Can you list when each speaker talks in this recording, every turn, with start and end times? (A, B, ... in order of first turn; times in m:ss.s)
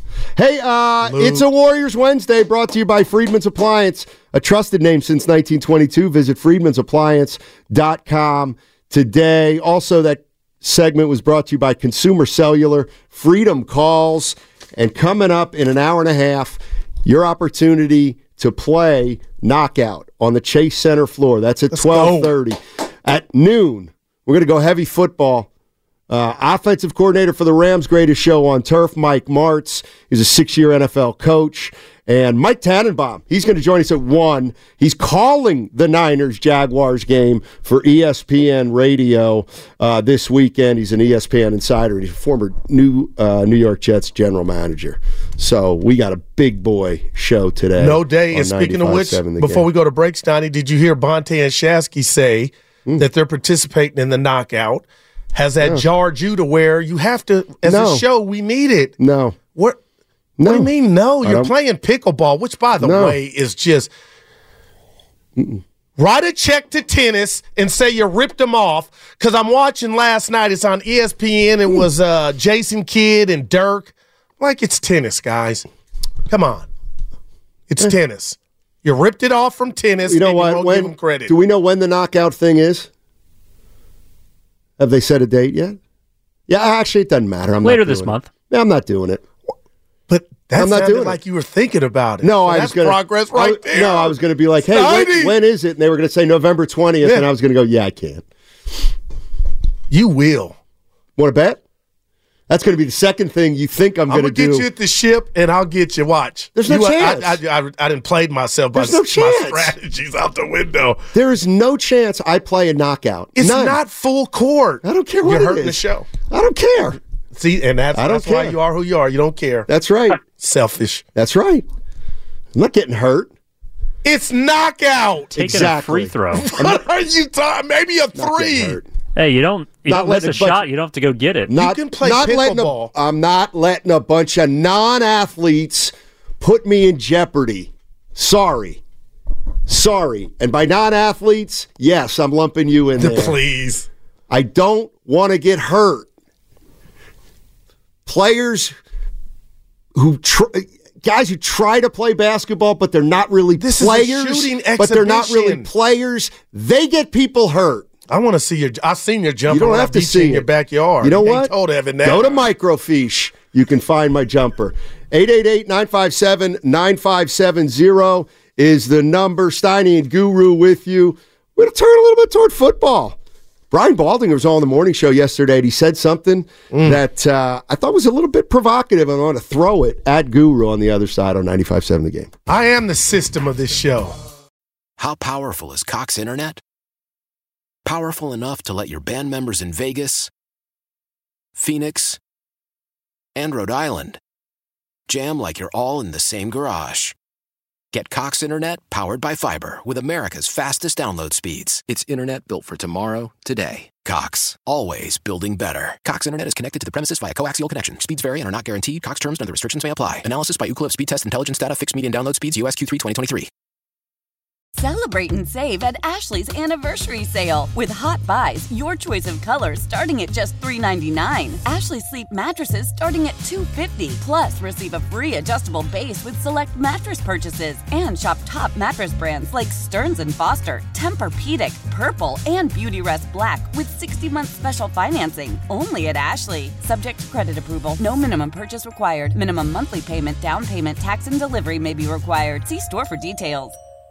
0:00.4-0:25.5 A
0:01.0-0:01.4 B
0:21.7-0:22.3 B
0:26.1-0:49.6 A
0:47.8-0:58.9 B
0:57.6-0:58.0 A
0:59.0-0:59.4 A
1:00.4-1:00.7 A
1:00.4-1:03.9 B
1:01.2-1:01.5 A
1:02.8-1:03.2 A
1:05.4-1:05.6 A
1:06.0-1:15.6 B
1:16.3-1:16.7 B
1:17.7-1:21.3 B
1:20.0-1:22.9 A
1:24.8-1:25.8 A
1:26.5-1:29.2 A
1:27.6-1:28.3 C
1:30.1-1:34.1 B
1:30.5-1:31.2 A
1:32.2-1:38.2 A
1:34.7-1:35.4 B
1:37.0-1:37.3 B
1:39.9-1:40.6 B
1:41.2-1:41.6 A
1:42.5-1:44.6 A
1:44.1-1:51.0 B
1:46.6-1:47.4 A
1:48.7-1:49.7 A
1:51.1-1:53.8 A
1:53.4-1:56.1 B
1:54.8-1:57.0 A
1:57.3-2:01.0 B
1:57.9-1:58.6 A
1:59.7-2:00.2 A
2:01.1-2:01.6 A
2:02.5-2:03.3 A
2:04.0-2:05.4 B
2:05.4-2:06.1 A
2:05.4-2:06.5 C
2:06.3-2:08.8 B
2:08.1-2:08.9 A
2:09.2-2:11.5 C
2:09.9-2:10.6 A
2:11.5-2:18.8 A
2:11.6-2:12.9 B
2:19.7-2:23.4 A
2:23.0-2:23.9 B
2:24.3-2:26.1 A
2:28.0-2:28.7 A
2:29.9-2:37.9 A
2:33.6-2:35.7 B
2:38.1-2:42.4 B
2:39.5-2:40.5 A
2:41.0-2:41.5 A
2:42.0-2:53.2 A
2:53.7-3:02.3 A
2:56.7-2:57.0 B
3:02.5-3:04.1 B
3:05.0-3:06.6 D
3:07.8-3:10.3 D
3:11.6-3:12.2 D
3:13.3-3:14.2 D
3:15.1-3:17.1 D
3:17.9-3:33.5 D
3:34.8-4:03.8 E